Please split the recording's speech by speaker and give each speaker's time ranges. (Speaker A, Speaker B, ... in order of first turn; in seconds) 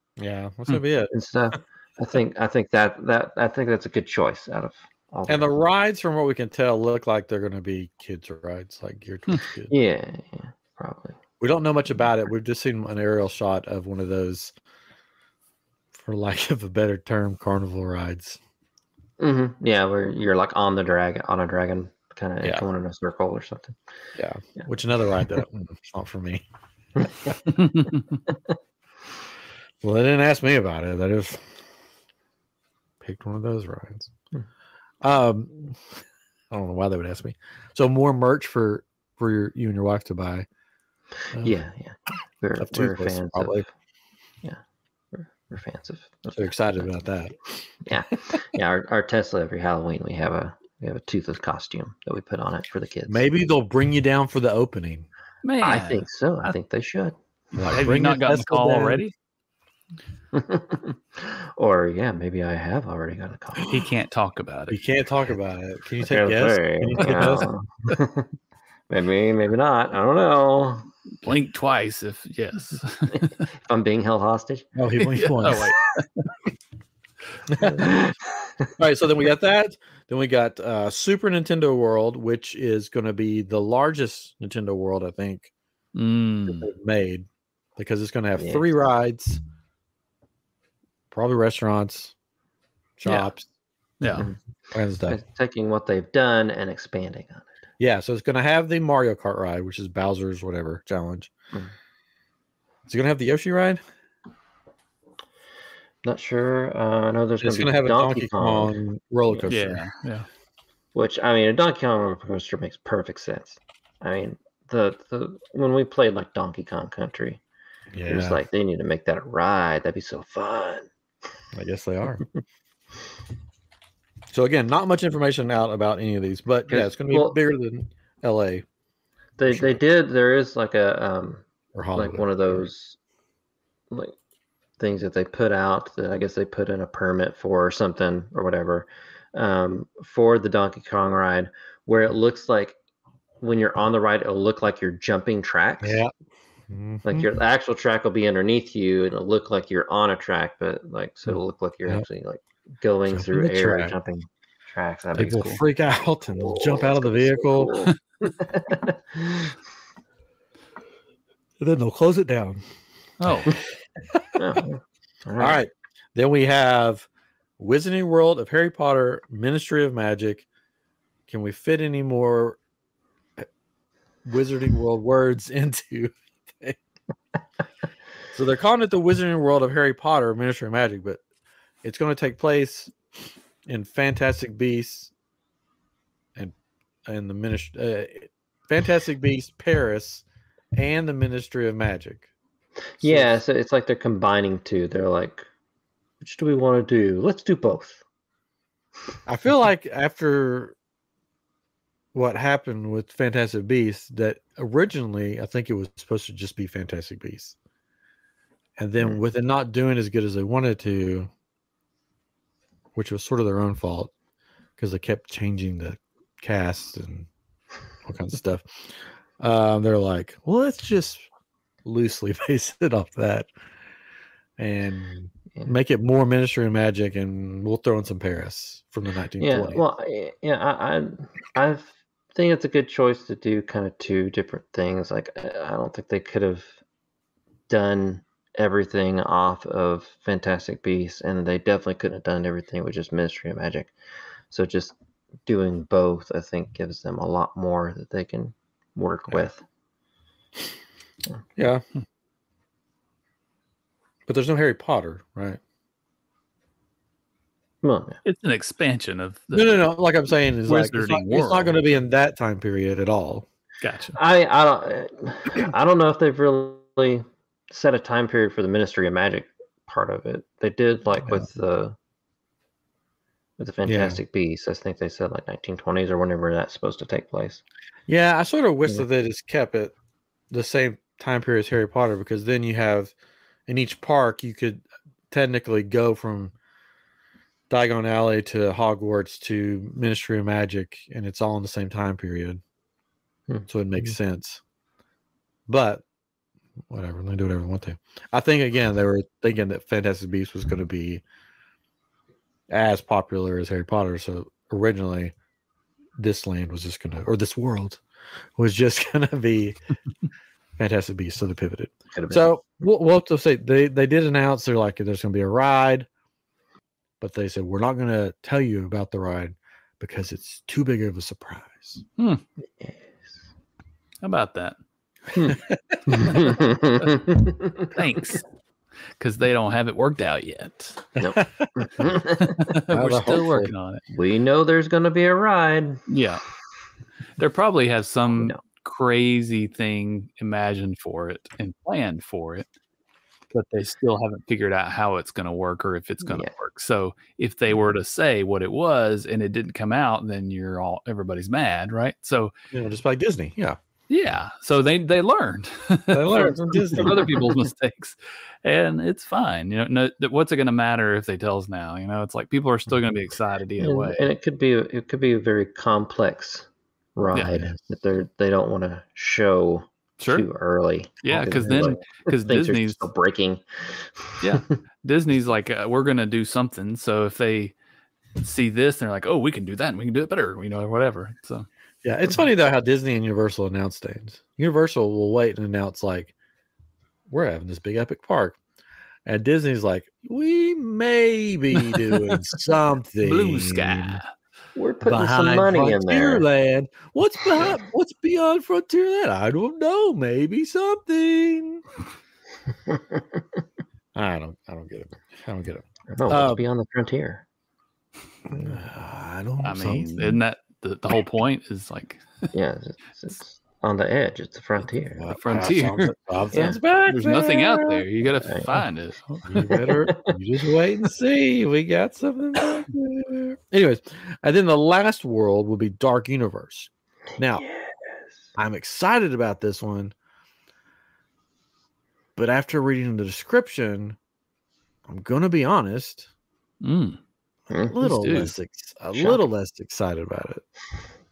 Speaker A: 0.2-1.1, 5.3-9.7, 11.4-14.5, 15.9-18.4, 24.1-26.4, 29.8-31.4, 33.0-34.1, 35.0-35.8, 36.5-40.5, 42.6-43.7, 46.3-47.4, 53.1-55.1, 57.5-59.0, 64.7-67.5, 74.8-75.7, 77.5-78.1, 78.8-85.5, 86.5-89.4, 91.1-92.1, 93.0-93.5, 94.7-95.2, 97.8-101.3, 102.9-103.8, 107.4-109.8, 117.9-118.4, 121.5-122.2, 124.3-128.6, 131.7-132.7, 145.8-146.1, 146.7-147.3, 153.1-153.9, 155.2-157.9, 161.6-162.6, 164.1-164.6, 165.4-167.1, 167.6-170.4, 171.3-172.6, 174.2-176.8, 178.3-181.2, 181.8-182.9, 183.7-185.1, 187.1-190.2, 190.7-192.2, 193.0-193.4, 199.2-200.7, 202.1-207.6, 208.8-211.3, 212.9-214.1, 214.8-217.3, 218.0-221.2, 221.8-223.5, 224.6-229.8, 251.6-251.8, 254.3-255.6, 259.5-263.4, 273.8-274.2, 278.1-279.9, 280.5-283.1, 283.7-286.5, 287.7-292.6, 293.7-294.6, 295.7-296.0, 296.9-301.2, 302.7-305.3, 306.2-308.0, 308.6-309.8, 310.8-316.1, 317.2-322.0, 325.4-326.2, 331.2-331.7, 332.9-333.7, 352.7-353.8, 356.1-357.5, 367.5-367.8, 382.0-386.3, 387.3-388.6, 389.2-394.2, 395.0-401.8, 404.1-406.6, 408.5-410.4, 415.2-418.1, 419.4-427.6, 428.6-430.1, 432.4-434.2, 435.1-436.3, 437.9-440.6
Speaker B: 1.1-5.5, 9.7-11.2, 19.2-23.8, 41.3-43.6, 45.1-46.9, 47.8-53.3, 55.6-57.1, 60.3-63.8, 66.0-68.3, 68.9-70.9, 73.2-74.7, 77.6-78.0, 88.4-88.6, 95.1-97.5, 106.0-108.8, 110.9-117.4, 118.1-120.9, 126.7-127.4, 129.4-133.0, 133.9-134.2, 134.8-142.8, 143.4-146.0, 147.0-155.6, 156.5-159.4, 164.3-165.6, 193.0-195.5, 196.2-198.0, 229.4-236.8, 237.7-243.9, 244.5-244.9, 245.4-249.6, 257.8-258.2, 264.1-271.9, 273.6-277.6, 312.1-312.5, 322.8-323.4, 325.3-327.9, 331.2-332.7, 334.1-336.0, 338.3-338.6, 346.2-346.5, 357.0-357.3, 363.8-374.5, 394.8-396.4, 402.9-403.2, 406.1-407.4, 412.5-415.4, 416.5-416.8, 419.7-420.3, 427.6-427.9, 439.1-439.4
Speaker C: 27.7-28.0, 55.4-56.0, 57.7-59.1, 63.6-64.8, 71.2-73.4, 75.0-76.3, 85.9-86.7, 94.0-94.3, 109.5-110.2, 163.2-163.6, 258.2-259.9, 260.6-261.7, 263.8-264.2, 322.2-322.4, 324.2-324.8, 326.3-326.6, 327.9-328.4, 329.2-331.1, 332.4-334.0, 336.1-336.4, 337.4-342.7, 343.5-352.5, 354.1-364.3, 367.3-367.6, 370.2-370.4, 371.2-373.0, 374.4-377.7, 378.4-381.7, 391.8-392.2, 393.2-394.3, 409.6-412.2, 415.4-416.1, 417.1-419.6, 436.8-437.2, 438.0-438.5